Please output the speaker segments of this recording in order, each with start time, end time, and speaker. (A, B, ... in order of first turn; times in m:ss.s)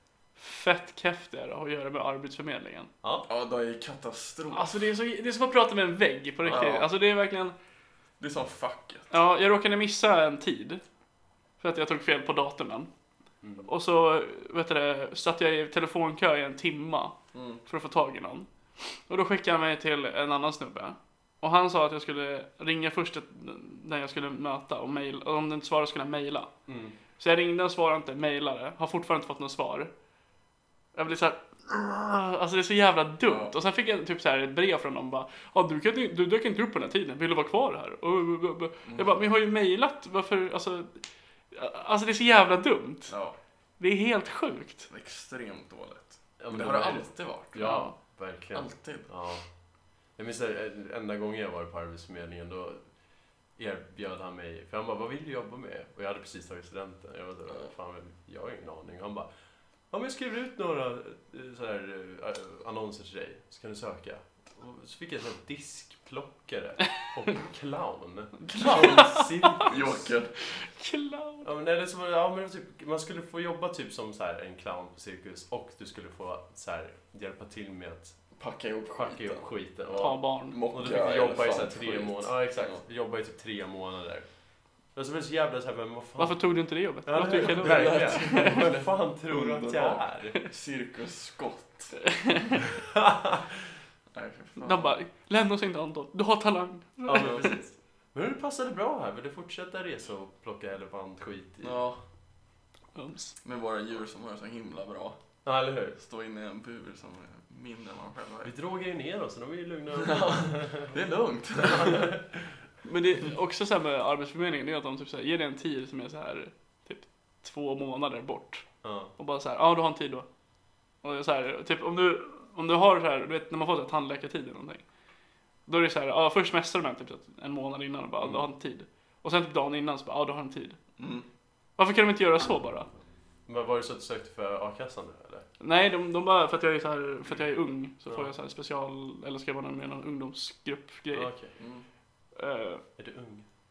0:00.4-0:02.9 A
0:03.0-0:03.3 B
0:03.3-0:04.9 C
0:04.5-0:07.5 A
0:06.4-0:06.9 C
0:08.2-0:09.1 C
0:09.1-0:10.8 A
0:11.6-0:12.9 A
0:13.4-0:13.7 B
0:13.6-0:26.5 A
0:17.3-0:17.6 C
0:26.7-0:26.9 B
0:27.2-0:29.9 A
0:30.9-0:43.1 A
0:33.3-0:33.5 C
0:38.9-0:39.1 C
0:43.1-0:43.4 C
0:43.8-0:44.9 A
0:44.9-0:47.6 C
0:46.4-0:49.4 B
0:47.6-0:47.9 A
0:48.5-0:49.1 C
0:50.1-0:52.9 B
0:53.6-0:59.3 B
0:59.9-1:10.1 B
1:08.4-1:09.7 A
1:08.6-1:10.3 C
1:10.4-1:11.5 A
1:11.4-1:18.2 B
1:18.4-1:22.8 C
1:18.9-1:24.3 B
1:20.0-1:20.6 A
1:24.9-1:26.5 B
1:26.2-1:28.7 A
1:27.0-1:30.4 B
1:27.2-1:32.0 C
1:32.1-1:32.6 A
1:32.9-1:33.4 B
1:34.1-1:34.9 C
1:34.6-1:37.6 A
1:37.1-1:41.8 B
1:37.2-1:37.5 C
1:41.6-1:42.0 C
1:42.9-1:43.4 A
1:43.4-1:45.2 C
1:45.4-1:46.0 B
1:46.0-1:48.5 C
1:48.4-1:50.9 B
1:50.0-1:52.2 C
1:51.6-1:52.5 B
1:52.8-2:00.3 A
1:58.8-1:59.1 B
2:01.0-2:04.8 A
2:05.7-2:10.8 A
2:11.0-2:11.2 C
2:11.8-2:12.9 A
2:13.5-2:15.4 B
2:15.6-2:21.3 A
2:21.1-2:21.5 B
2:21.6-2:21.8 C
2:22.4-2:22.8 A
2:23.0-2:23.5 B